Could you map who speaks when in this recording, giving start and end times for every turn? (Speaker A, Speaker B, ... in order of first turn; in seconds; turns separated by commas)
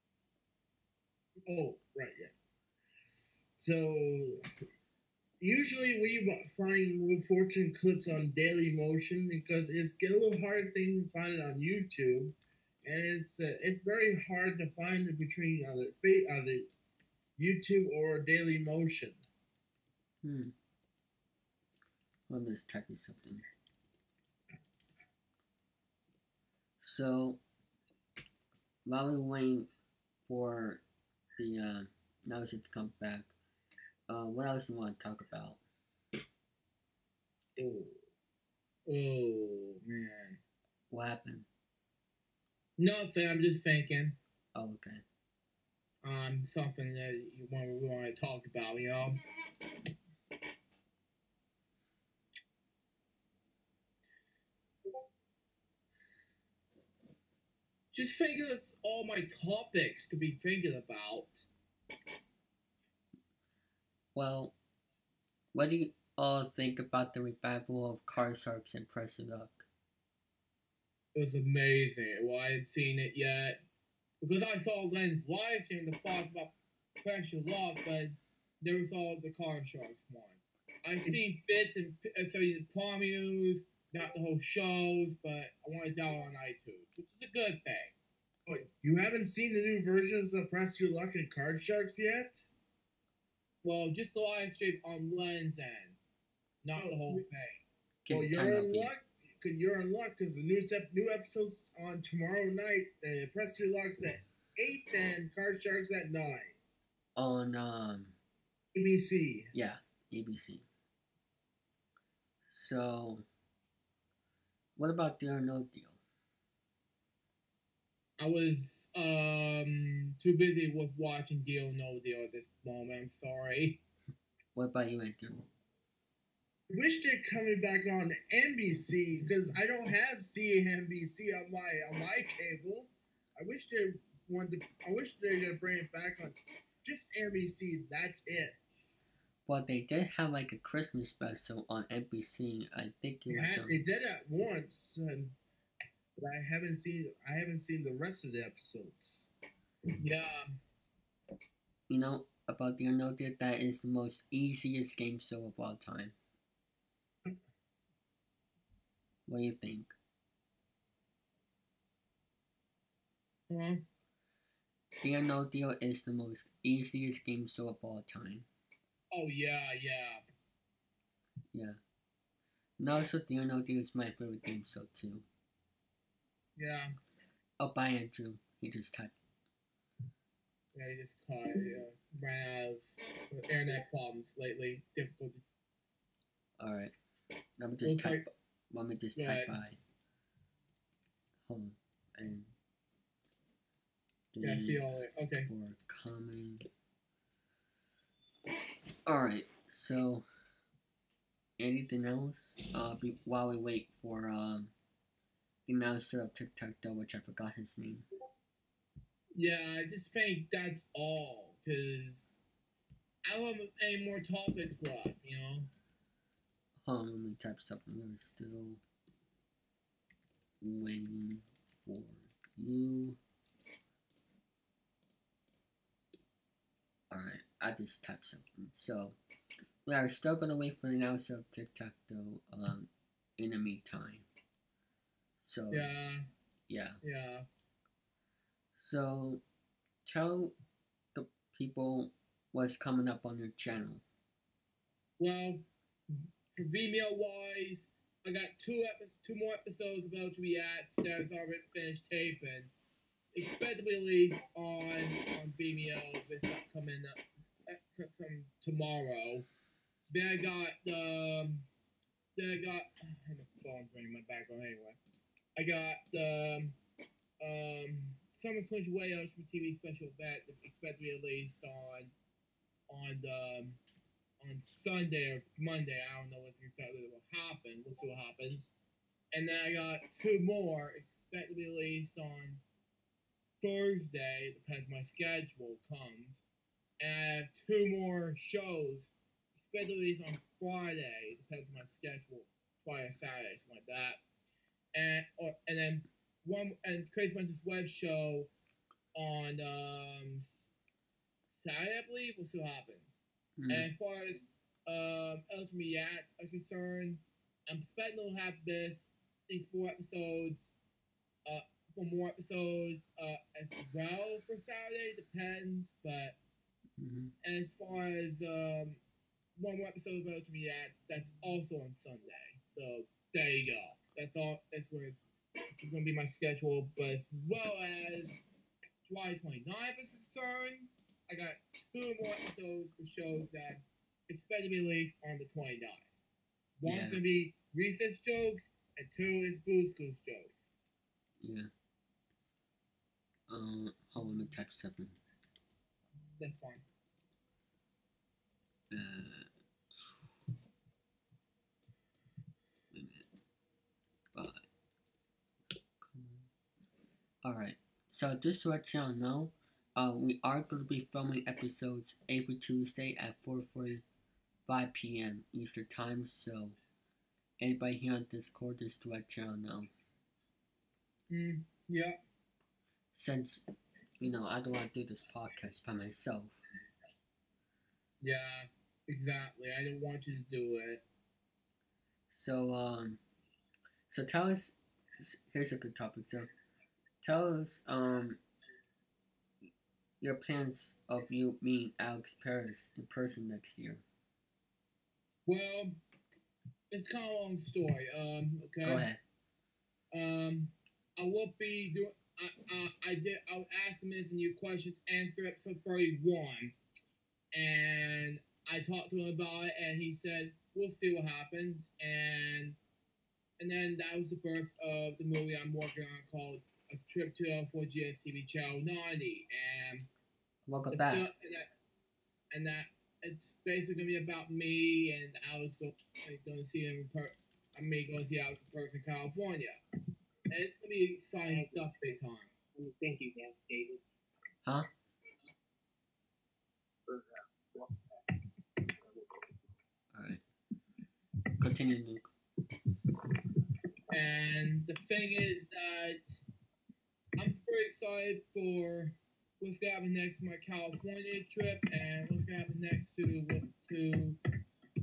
Speaker A: 1.5-2.3, Speaker A: 3.6-4.4, Speaker A: 5.4-16.7, Speaker A: 17.4-19.2, Speaker B: 20.2-20.5, Speaker B: 22.3-23.4, Speaker B: 26.8-27.4, Speaker B: 28.8-29.7, Speaker B: 30.2-30.8, Speaker B: 31.4-33.3, Speaker B: 34.1-35.6, Speaker C: 37.5-38.0, Speaker C: 38.9-40.4, Speaker B: 40.9-41.5, Speaker C: 42.8-44.2, Speaker B: 44.5-45.0, Speaker C: 46.0-49.2, Speaker C: 57.9-61.5, Speaker B: 64.1-64.5, Speaker B: 65.5-69.7, Speaker C: 71.1-73.6, Speaker C: 74.2-87.9, Speaker A: 88.5-92.4, Speaker C: 93.6-96.0, Speaker C: 96.6-97.6, Speaker A: 96.8-97.2, Speaker B: 98.0-98.9, Speaker A: 98.1-106.6, Speaker B: 107.2-108.2, Speaker A: 108.7-109.5, Speaker B: 109.5-110.6, Speaker B: 112.5-113.2, Speaker B: 114.8-116.0, Speaker C: 118.2-123.8, Speaker B: 124.5-125.5, Speaker A: 126.7-138.8, Speaker B: 139.4-143.8, Speaker A: 143.3-145.3, Speaker A: 146.2-149.3, Speaker C: 150.0-150.4, Speaker B: 151.9-156.2, Speaker B: 159.3-159.9, Speaker C: 163.5-163.8, Speaker B: 165.0-168.5, Speaker C: 169.1-170.2, Speaker B: 171.5-171.8, Speaker B: 172.8-175.2, Speaker C: 176.6-176.9, Speaker B: 177.6-179.1, Speaker C: 180.7-185.4, Speaker B: 186.6-186.9, Speaker B: 187.6-189.8, Speaker C: 187.8-188.3, Speaker C: 189.2-189.5, Speaker B: 191.4-192.5, Speaker B: 194.3-196.6, Speaker C: 194.4-195.5, Speaker B: 199.1-200.2, Speaker B: 201.6-204.7, Speaker B: 205.7-208.0, Speaker C: 209.3-212.3, Speaker C: 213.2-215.7, Speaker B: 216.8-218.8, Speaker B: 220.6-223.2, Speaker B: 227.1-229.2, Speaker B: 229.8-234.2, Speaker B: 235.4-235.9, Speaker C: 235.7-236.2, Speaker B: 236.7-237.0, Speaker C: 237.0-237.4, Speaker B: 238.8-239.4, Speaker B: 240.0-240.5, Speaker B: 241.1-244.0, Speaker C: 245.2-245.6, Speaker C: 246.5-252.7, Speaker C: 253.3-259.5, Speaker C: 260.1-261.7, Speaker C: 262.4-265.0, Speaker C: 265.5-266.8, Speaker C: 267.4-272.1, Speaker C: 272.9-273.8, Speaker C: 274.4-278.7, Speaker C: 279.3-282.6, Speaker C: 283.6-286.4, Speaker C: 287.0-294.2, Speaker C: 294.9-298.5, Speaker C: 299.1-300.5, Speaker C: 301.6-303.2, Speaker B: 303.6-303.9, Speaker C: 303.7-310.7, Speaker C: 311.4-316.4, Speaker B: 317.0-317.3, Speaker C: 317.4-319.0, Speaker C: 319.6-325.2, Speaker C: 325.8-328.4, Speaker C: 329.0-336.1, Speaker C: 336.8-340.7, Speaker B: 336.8-337.2, Speaker B: 341.4-341.7, Speaker B: 343.5-345.2, Speaker C: 346.4-346.8, Speaker B: 348.9-350.2, Speaker B: 352.9-353.2, Speaker B: 354.3-354.6, Speaker B: 356.0-356.5, Speaker B: 357.4-364.0, Speaker B: 364.6-366.8, Speaker B: 367.6-369.9, Speaker C: 371.3-372.2, Speaker B: 373.1-373.6, Speaker B: 374.2-376.6, Speaker C: 378.2-381.0, Speaker B: 382.3-383.2, Speaker B: 384.1-386.5, Speaker B: 387.2-388.4, Speaker B: 390.2-394.0, Speaker C: 395.4-395.9, Speaker C: 396.9-399.1, Speaker B: 398.8-399.2, Speaker C: 400.1-406.7, Speaker C: 407.5-412.8, Speaker C: 413.6-420.1, Speaker B: 420.6-421.3, Speaker C: 420.9-421.7, Speaker C: 422.5-429.8, Speaker C: 430.5-432.5, Speaker D: 431.4-432.1, Speaker D: 432.8-434.0, Speaker D: 437.1-438.3, Speaker D: 438.9-439.3, Speaker B: 440.1-440.4, Speaker B: 441.6-442.3, Speaker C: 444.1-446.3, Speaker C: 447.4-454.4